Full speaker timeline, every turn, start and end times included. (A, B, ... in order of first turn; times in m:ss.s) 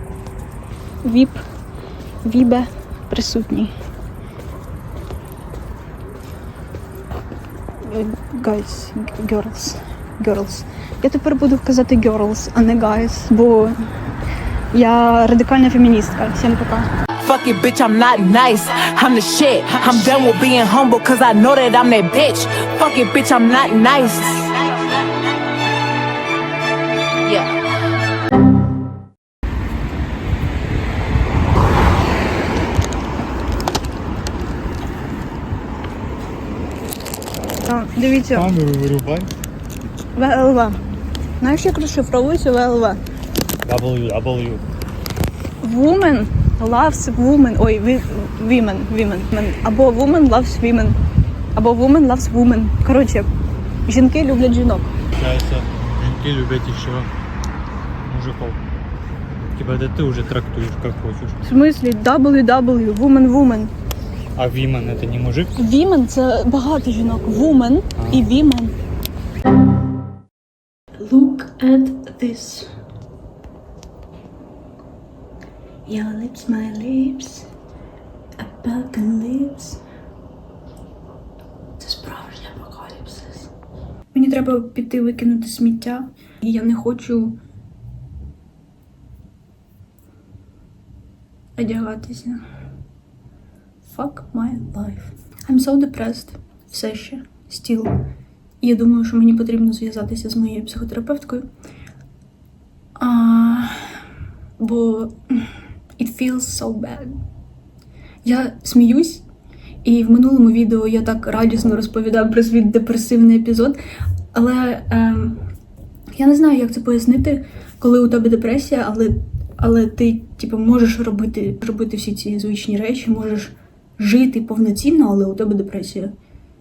0:01.0-0:01.4 A
0:02.2-0:03.7 A
0:07.8-0:13.8 A
0:14.7-0:16.9 A
0:17.2-0:24.5 B
0:27.2-0:27.5 B
0:37.6-0:38.5 A
0:38.3-0:39.3 C
0:40.1-0:40.8 A
0:41.4-0:43.0 A
0:43.6-0:44.6 C
0:45.6-0:51.0 A
0:51.5-0:53.3 A
0:53.9-0:54.9 A
0:55.2-0:57.1 C
0:58.0-0:58.6 C
0:59.5-1:01.4 C
1:01.4-1:03.7 A
1:04.4-1:05.5 C
1:05.6-1:08.8 A
1:11.0-1:12.7 A
1:15.9-1:17.5 A
1:18.4-1:19.8 A
1:21.8-1:23.5 A
1:24.1-1:27.4 A
1:31.6-1:32.4 A
1:33.8-1:38.0 A
1:38.6-1:41.5 A
1:43.0-1:44.0 A
1:44.6-1:47.2 A
1:48.2-1:49.2 A
1:49.8-1:53.8 A
1:54.3-1:55.4 A
1:56.1-2:06.1 A